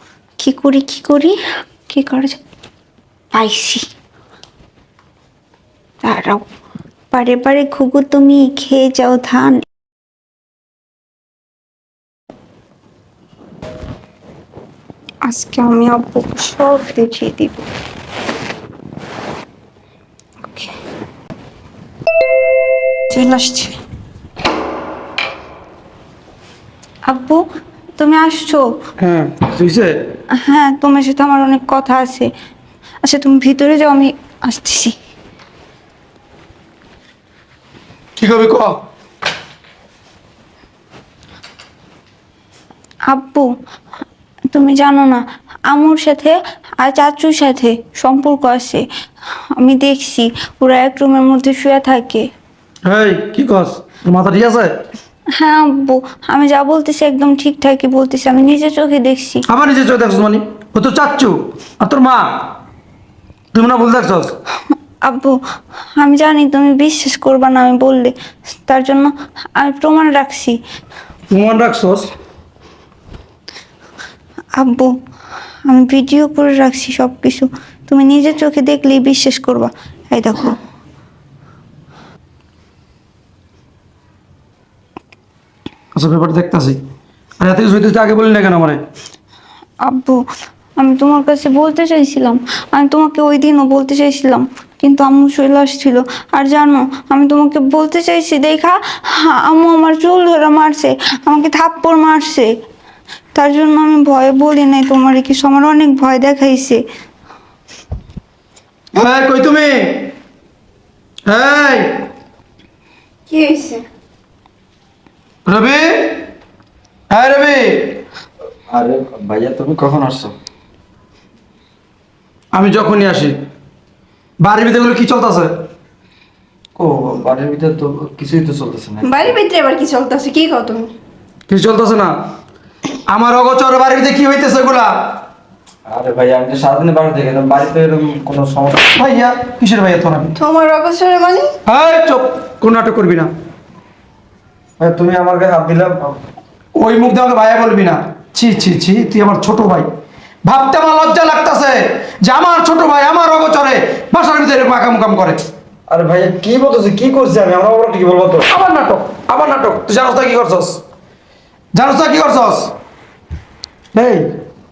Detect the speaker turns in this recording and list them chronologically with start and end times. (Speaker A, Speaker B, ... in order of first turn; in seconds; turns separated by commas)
Speaker A: 0.4-1.4, Speaker A: 1.9-2.4, Speaker A: 3.3-3.8, Speaker A: 6.0-6.4, Speaker A: 7.1-9.6, Speaker A: 15.3-17.7, Speaker A: 23.1-23.8, Speaker A: 27.1-27.4, Speaker A: 28.0-28.8, Speaker B: 29.0-30.2, Speaker A: 30.4-32.3, Speaker A: 33.0-35.0, Speaker B: 38.2-38.8, Speaker A: 43.1-43.5, Speaker A: 44.5-48.9, Speaker A: 49.5-52.3, Speaker B: 52.9-54.8, Speaker A: 55.3-59.5, Speaker B: 59.5-62.5, Speaker B: 63.5-64.3, Speaker A: 65.0-65.4, Speaker A: 66.0-70.6, Speaker B: 71.3-72.1, Speaker A: 74.5-75.0, Speaker A: 75.7-80.6, Speaker B: 85.9-86.8, Speaker B: 87.4-88.8, Speaker A: 89.8-90.2, Speaker A: 90.8-102.5, Speaker A: 103.3-106.8, Speaker B: 109.0-110.1, Speaker B: 111.3-112.0, Speaker C: 113.3-113.8, Speaker B: 115.5-116.3, Speaker B: 117.1-118.0, Speaker D: 118.7-120.4, Speaker B: 122.5-123.4, Speaker B: 124.4-125.6, Speaker D: 126.8-129.3, Speaker C: 129.0-130.9, Speaker B: 131.5-132.2, Speaker B: 133.1-135.2, Speaker D: 135.9-138.9, Speaker B: 138.9-140.4, Speaker C: 140.4-141.5, Speaker B: 141.7-143.3, Speaker D: 144.8-146.2, Speaker B: 146.8-149.9, Speaker B: 150.5-155.4, Speaker D: 155.9-158.5, Speaker B: 158.5-160.8, Speaker B: 161.8-162.7, Speaker B: 163.9-164.3